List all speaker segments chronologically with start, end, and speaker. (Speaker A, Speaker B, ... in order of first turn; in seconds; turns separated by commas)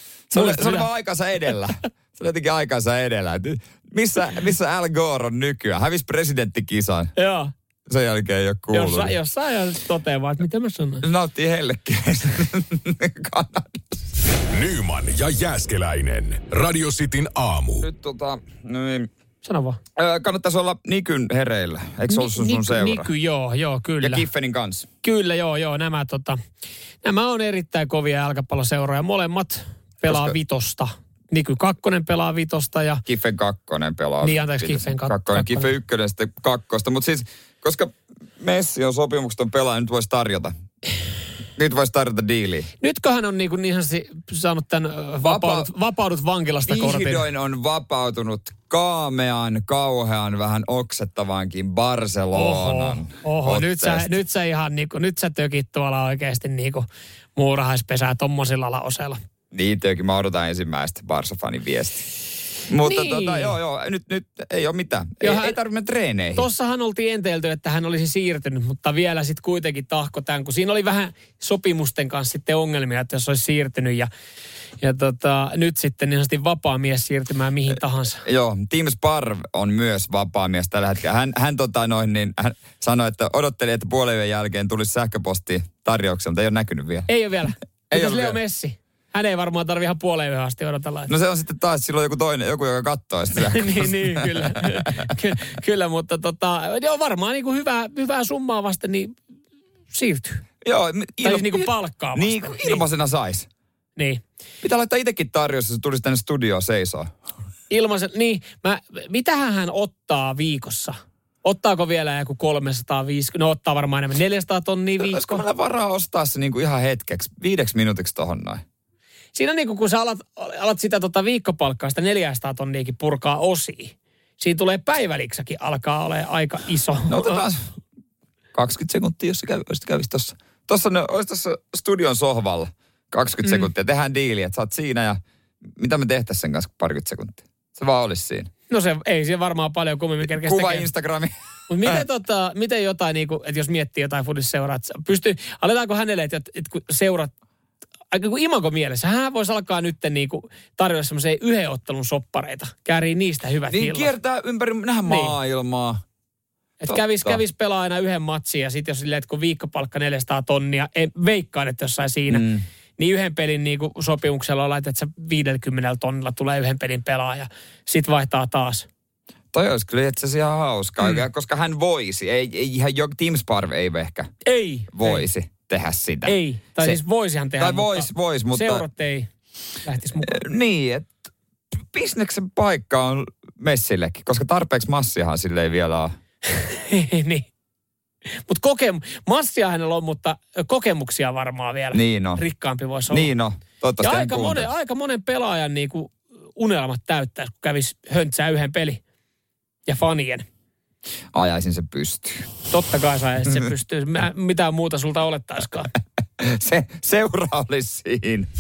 Speaker A: 0.3-7.1, Speaker B: 0.3-0.9, Speaker B: 7.2-7.5, Speaker A: 7.9-9.2, Speaker B: 8.7-11.1, Speaker A: 11.0-14.0, Speaker C: 14.5-17.9, Speaker A: 17.8-19.1, Speaker B: 19.4-19.8, Speaker A: 20.0-23.1, Speaker B: 22.1-24.3, Speaker A: 24.0-24.9, Speaker B: 25.0-26.4, Speaker B: 27.0-33.0, Speaker A: 30.1-30.4, Speaker A: 33.1-40.5, Speaker B: 34.2-35.7, Speaker A: 41.6-42.7, Speaker B: 42.8-47.3, Speaker A: 45.2-45.7, Speaker A: 46.7-54.2, Speaker B: 52.4-59.2, Speaker A: 59.5-62.1, Speaker A: 62.7-66.5, Speaker B: 62.8-63.5, Speaker B: 65.2-65.6, Speaker B: 66.3-74.1, Speaker B: 74.8-78.2, Speaker A: 78.2-87.1, Speaker B: 87.1-91.1, Speaker A: 87.9-88.4, Speaker A: 91.1-95.1, Speaker B: 93.4-99.2, Speaker B: 99.9-100.4, Speaker A: 100.6-103.5, Speaker B: 101.2-102.8, Speaker B: 104.0-104.2, Speaker A: 104.6-107.1, Speaker B: 107.7-115.4, Speaker A: 115.0-118.6, Speaker B: 119.3-127.5, Speaker A: 127.1-127.6, Speaker A: 128.6-135.2, Speaker A: 135.8-138.5, Speaker B: 138.7-140.9, Speaker A: 140.2-141.3, Speaker B: 141.7-147.3, Speaker B: 148.1-154.1, Speaker A: 153.7-156.0, Speaker B: 155.1-155.3, Speaker B: 156.8-168.9, Speaker A: 156.9-157.4, Speaker A: 162.3-162.6, Speaker A: 169.5-174.3, Speaker B: 174.4-175.2, Speaker A: 174.9-177.0, Speaker B: 176.2-179.3, Speaker A: 177.6-178.9, Speaker B: 179.8-180.4, Speaker A: 180.2-181.2, Speaker A: 181.9-186.1, Speaker B: 186.5-187.5, Speaker B: 188.3-193.3, Speaker A: 191.9-192.4, Speaker A: 193.1-194.7, Speaker B: 194.0-199.0, Speaker B: 199.9-200.5, Speaker A: 201.3-202.5, Speaker B: 202.7-205.9, Speaker A: 206.4-208.5